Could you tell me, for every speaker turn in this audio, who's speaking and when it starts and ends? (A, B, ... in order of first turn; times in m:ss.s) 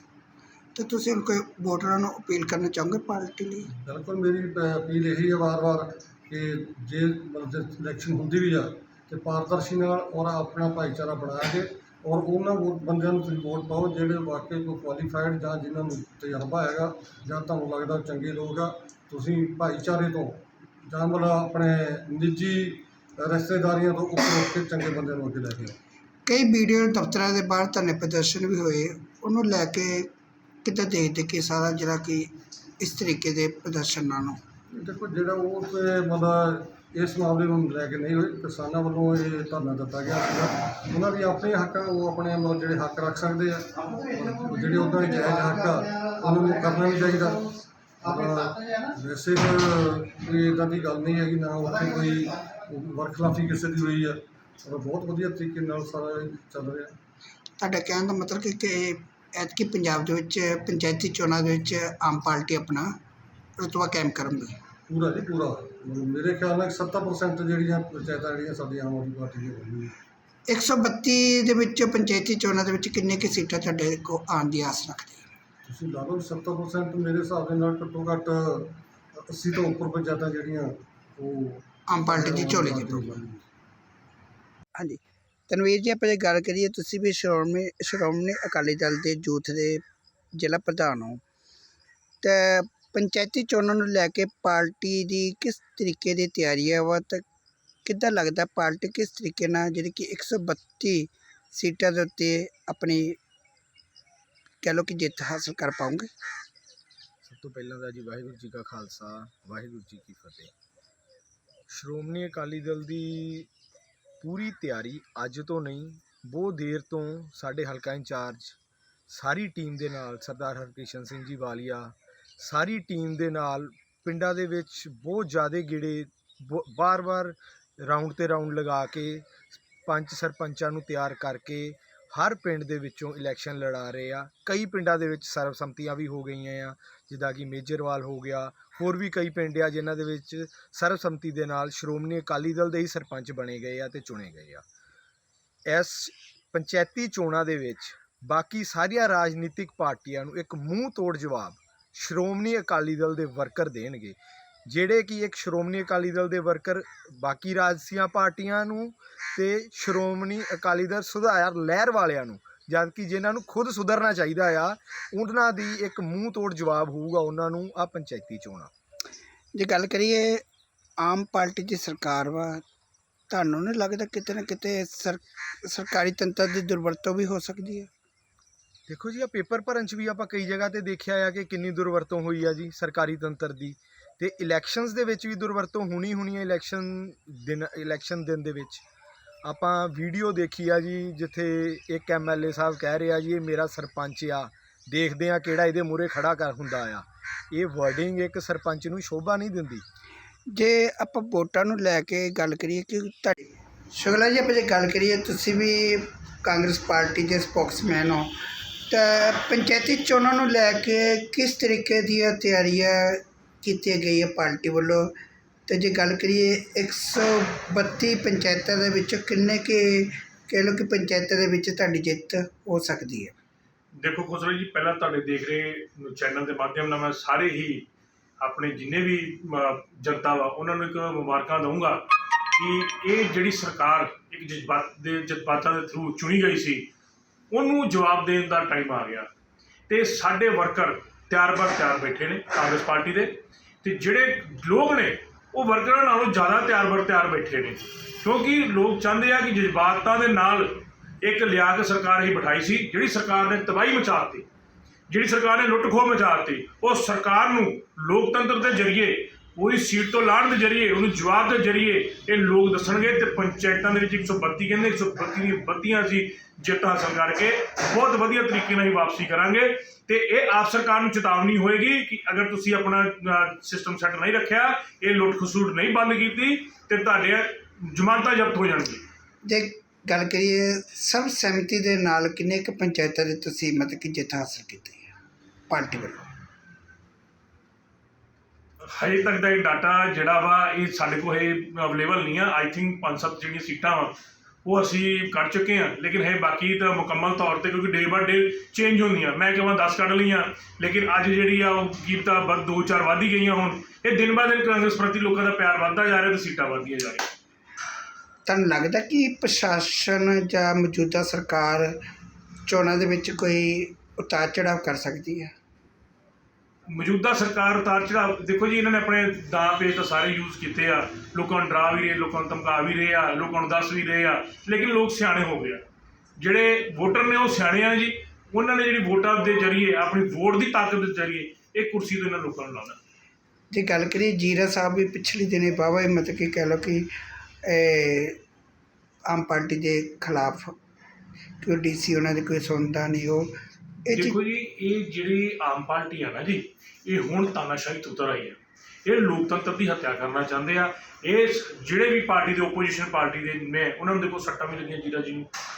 0:00.7-0:03.7 A
0:03.8-0:20.4 B
0:20.9-0:25.8 B
0:26.2-0:30.1 A
0:30.6-0:34.4 A
0:34.7-0:47.3 B
0:48.1-0:56.9 B
0:57.6-1:02.9 A
1:03.6-1:04.6 A
1:04.9-1:09.9 B
1:10.5-1:15.3 A
1:15.6-1:23.3 B
1:21.9-1:23.2 A
1:24.8-1:29.8 A
1:30.4-1:31.2 A
1:32.2-1:37.2 A
1:37.8-1:43.2 A
1:44.6-1:46.1 A
1:47.2-1:50.5 C
1:51.7-1:53.5 C
1:54.2-1:58.6 C
1:59.1-2:24.6 C
2:25.7-2:48.7 C
2:49.6-2:50.4 A
2:51.0-2:52.6 A
2:53.3-2:57.9 A
2:58.9-3:08.8 C
3:09.4-3:19.8 C
3:20.5-3:28.3 A
3:28.9-3:35.1 A
3:35.7-3:43.3 A
3:44.0-3:47.8 D
3:48.4-3:52.0 D
3:52.5-3:56.9 D
3:57.5-3:59.3 D
3:59.9-4:14.4 D
4:15.1-4:39.0 D
4:39.4-4:45.1 A
4:45.7-4:46.2 A
4:48.8-4:54.1 D
4:54.6-5:07.3 D
5:08.4-5:11.9 A
5:12.6-5:15.5 A
5:16.9-5:25.8 D
5:26.4-5:33.0 D
5:33.7-5:37.1 A
5:37.6-5:38.4 A
5:39.3-5:40.7 A
5:41.6-5:43.5 A
5:44.1-5:44.4 A
5:44.1-5:55.5 D